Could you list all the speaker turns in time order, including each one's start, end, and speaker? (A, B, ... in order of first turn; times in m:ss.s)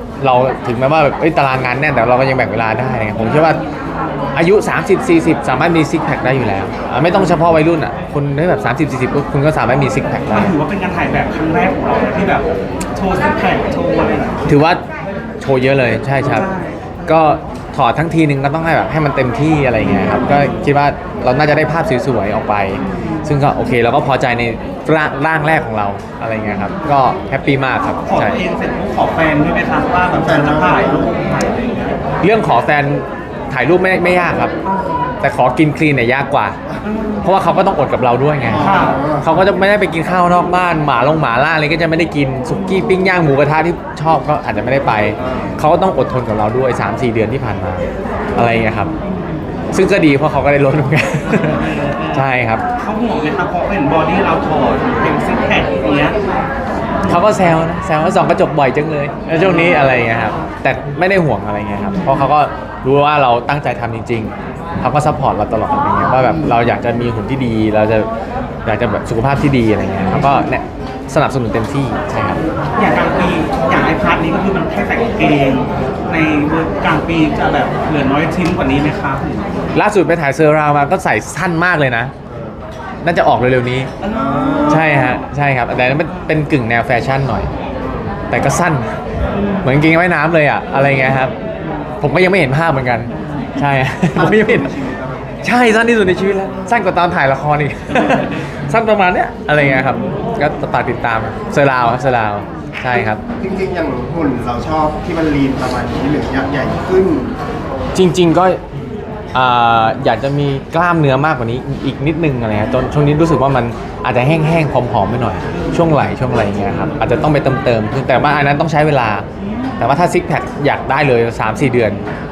0:00.2-0:03.6 A
0:04.0-0:04.2 B
0:04.3-0:10.5 A
0:10.3-0:14.5 B
0:14.4-0:14.8 A
0:15.4-0:16.5 A
0:16.2-0:17.0 B
0:17.0-0:28.4 A
0:19.9-0:20.5 B
0:22.8-0:23.3 B
0:28.0-0:32.0 B
0:30.1-0:31.1 C
0:32.2-0:34.6 A
0:34.6-0:35.1 B
0:35.2-0:36.6 A
0:36.8-0:37.3 B
0:37.2-0:47.8 A
0:38.5-0:39.0 B
0:38.5-0:39.3 C
0:48.3-0:48.9 A
0:49.7-0:52.6 A
0:51.2-0:56.2 B
0:57.1-1:08.1 A
0:59.4-0:59.8 B
1:08.6-1:12.4 A
1:12.8-1:19.7 B
1:19.7-1:22.1 A
1:23.0-1:24.0 A
1:24.0-1:25.3 B
1:24.1-1:24.9 C
1:24.6-1:27.5 A
1:26.0-1:26.3 B
1:28.3-1:29.0 A
1:29.6-1:31.4 A
1:32.0-1:34.8 A
1:33.2-1:33.5 B
1:34.1-1:35.4 C
1:35.4-1:43.2 A
1:43.4-1:47.4 C
1:47.9-1:48.6 A
1:49.3-1:59.2 A
1:59.4-1:59.9 B
1:59.8-2:02.0 A